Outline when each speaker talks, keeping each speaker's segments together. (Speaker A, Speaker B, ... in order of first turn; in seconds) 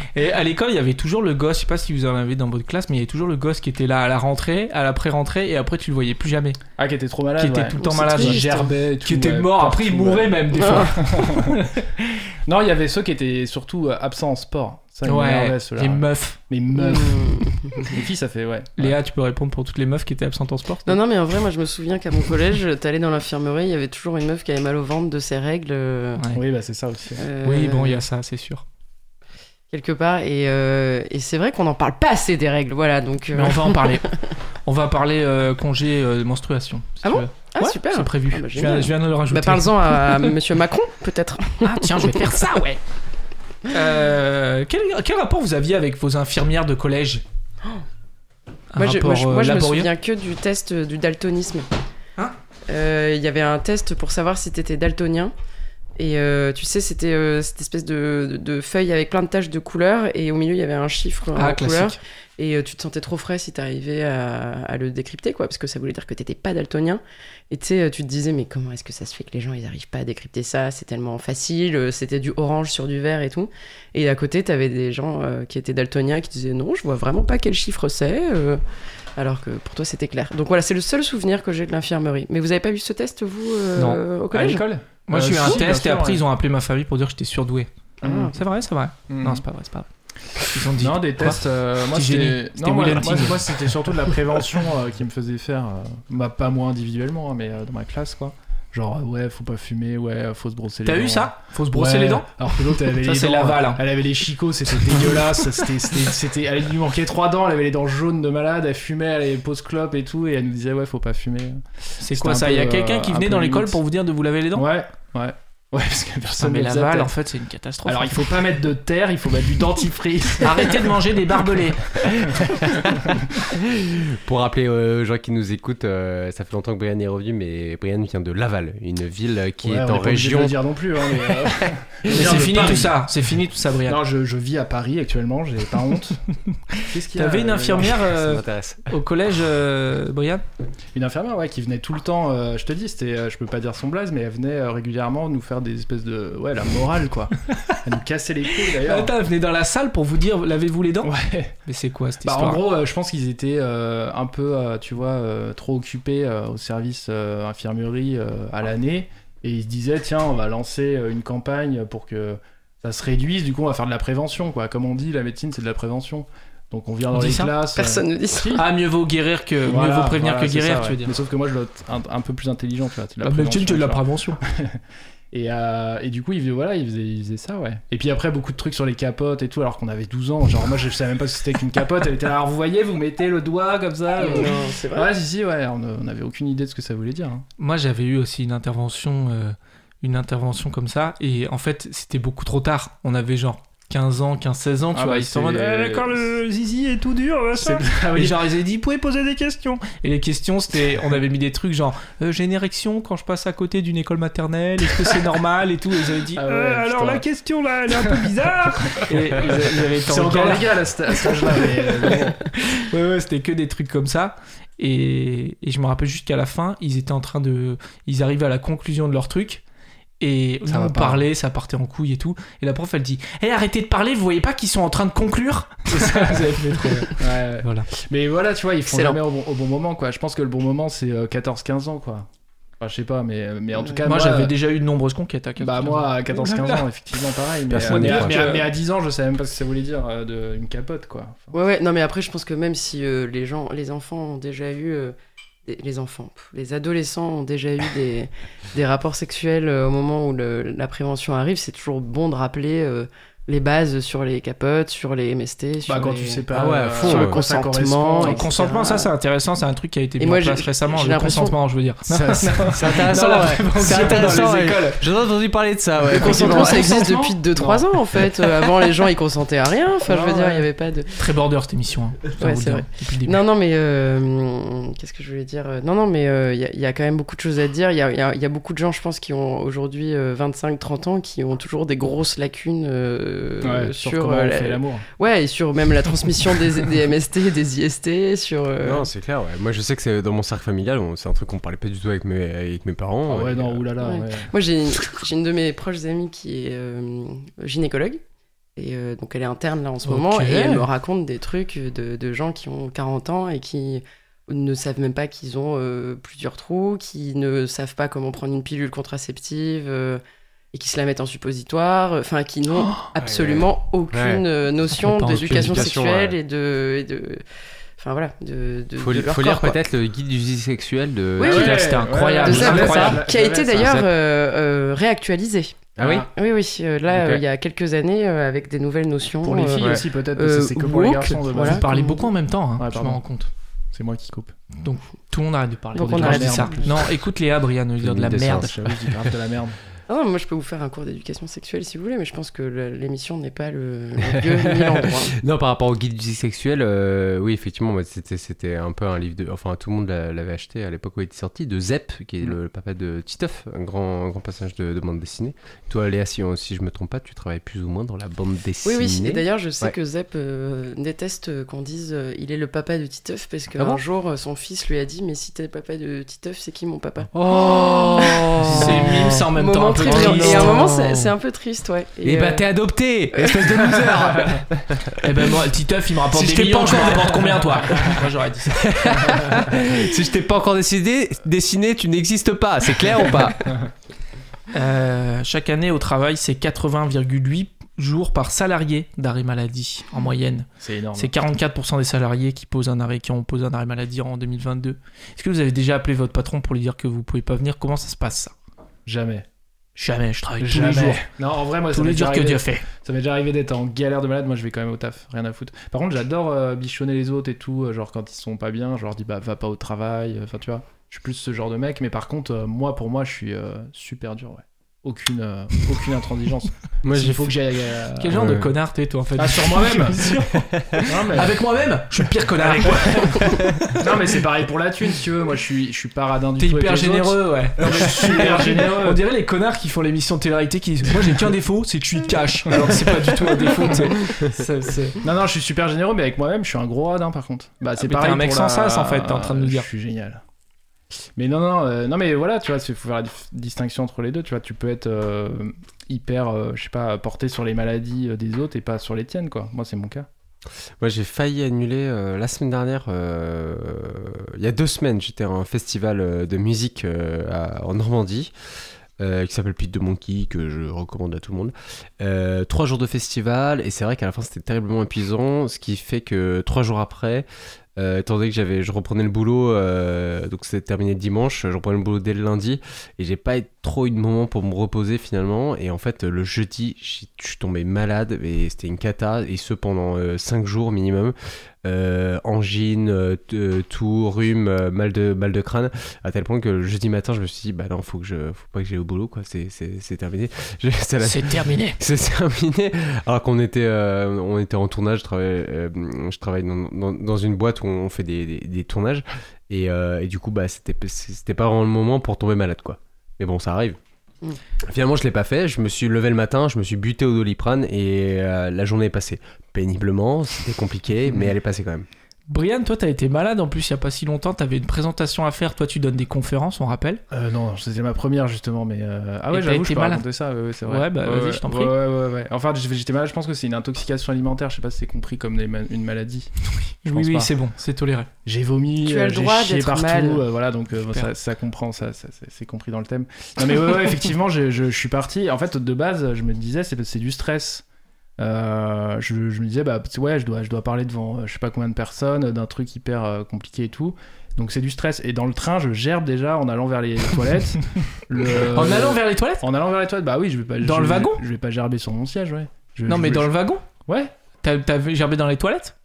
Speaker A: 0.1-6.6, 7.4-12.0, 15.0-16.4, 18.8-21.0, 27.4-28.6, 33.3-34.1, 34.6-40.3, 41.6-42.8, 43.7-47.2, 48.7-49.9, 61.4-62.0, 85.1-87.7, 88.3-89.9, 90.5-93.7, 100.8-103.8, 112.0-114.7, 116.3-118.3, 120.4-121.9, 132.1-134.0, 137.1-140.4, 148.7-151.1, 151.7-152.6, 167.1-167.5, 168.5-171.2, 173.2-174.4, 187.6-210.7, 211.6-212.1, 212.7-219.6, 220.2-227.9, 234.0-236.8, 237.9-238.7, 258.2-265.0, 271.2-273.4, 300.0-300.9, 315.0-315.8, 321.4-323.2, 331.6-333.5, 334.8-339.0, 368.6-370.9, 375.2-378.8, 384.7-398.5, 399.9-401.3, 401.9-402.9, 418.1-423.8, 426.6-435.2, 438.0-439.9, 491.2-492.0, 512.5-517.2, 519.5-520.2, 520.8-521.9, 527.0-528.3, 548.6-549.6, 550.8-551.4, 553.1-553.8, 554.6-555.9
Speaker B: 6.8-11.7, 12.4-19.0, 26.3-27.2, 84.3-86.2, 88.0-88.3, 89.1-89.4, 90.8-113.8, 114.5-117.1, 117.8-121.0, 129.6-133.0, 133.9-136.2, 136.8-138.0, 140.9-149.1, 151.0-151.5, 152.2-168.6, 169.6-174.8, 175.3-187.4, 194.9-196.3, 197.5-198.4, 206.3-207.2, 207.9-208.3, 208.9-209.4, 210.1-212.4, 220.7-221.2, 225.9-226.6, 227.2-232.3, 232.8-234.5, 235.6-241.5, 255.8-258.5, 262.1-264.3, 266.1-267.9, 270.0-270.7, 283.6-285.1, 293.3-294.5, 321.4-324.0, 326.0-326.3, 329.4-331.8, 332.8-333.2, 333.9-334.5, 335.9-337.0, 338.6-339.8, 390.8-391.3, 399.1-399.5, 400.6-418.6, 419.4-420.4, 421.0-421.6, 422.5-429.2, 432.7-433.1, 435.2-440.4, 441.4-450.3, 517.3-526.5, 527.0-527.5, 528.4-537.8, 538.4-553.5, 554.0-554.3
Speaker C: 7.8-8.7, 10.5-11.0, 16.7-17.9, 20.9-26.2, 27.2-28.0, 29.7-34.2, 37.0-42.4, 48.8-51.7, 52.7-55.3, 56.0-78.6, 79.2-84.6, 88.0-88.3, 167.7-168.6, 184.2-185.1, 228.9-229.2, 233.8-234.0, 241.5-245.1, 245.7-259.1, 260.2-261.6, 266.1-271.2, 272.4-289.1, 294.0-298.2, 298.8-310.2, 310.7-317.4, 318.0-319.8, 321.4-321.8, 322.4-332.3, 335.9-336.9, 340.1-345.4, 358.8-372.7, 373.3-374.1, 529.0-530.4
Speaker D: 122.0-130.5, 131.1-132.8, 138.0-138.9, 237.7-238.5, 256.5-257.4, 262.6-267.1, 288.8-293.8, 313.2-314.4, 315.4-316.4, 319.0-321.7, 322.5-323.1, 323.7-324.1, 326.0-326.3, 329.8-330.0, 338.0-338.7, 344.4-359.9, 363.7-364.0, 367.3-369.5, 370.0-371.3, 372.2-375.2, 376.3-378.2, 378.7-383.8, 417.0-417.5, 418.3-418.7, 423.4-423.8, 451.0-458.5, 459.2-467.4, 468.0-504.0, 504.8-512.1